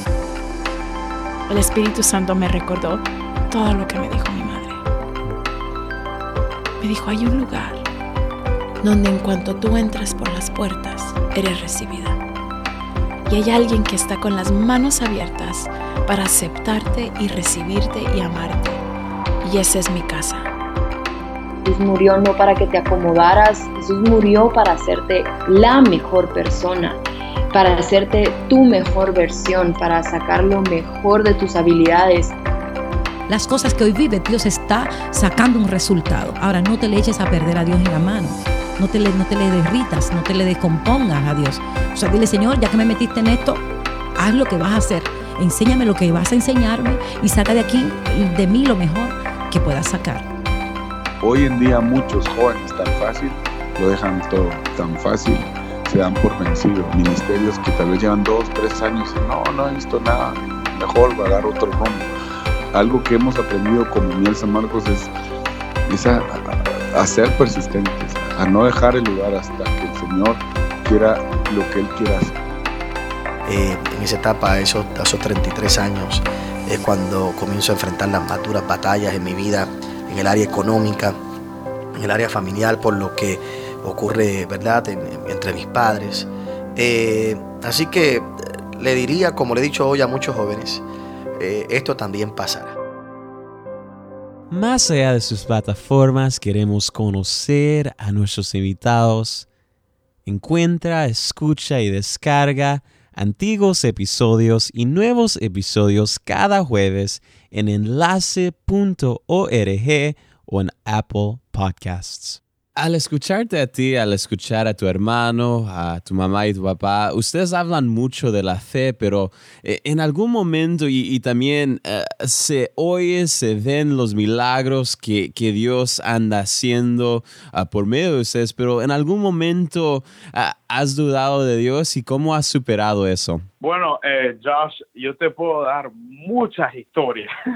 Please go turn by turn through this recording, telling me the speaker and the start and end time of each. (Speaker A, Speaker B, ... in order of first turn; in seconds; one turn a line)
Speaker A: 1.5-4.8
Speaker A: 6.8-7.8
Speaker A: 8.8-12.2
Speaker A: 13.3-18.8
Speaker A: 19.4-20.5
Speaker B: 21.6-27.0
Speaker B: 27.5-32.4
Speaker C: 33.3-43.6
Speaker C: 44.2-50.2
Speaker D: 51.2-62.1
Speaker D: 62.7-65.1
Speaker D: 65.9-72.4
Speaker E: 73.5-81.2
Speaker E: 81.9-90.8
Speaker E: 91.4-92.8
Speaker F: 94.5-99.5
Speaker F: 100.2-133.4
Speaker G: 133.6-137.3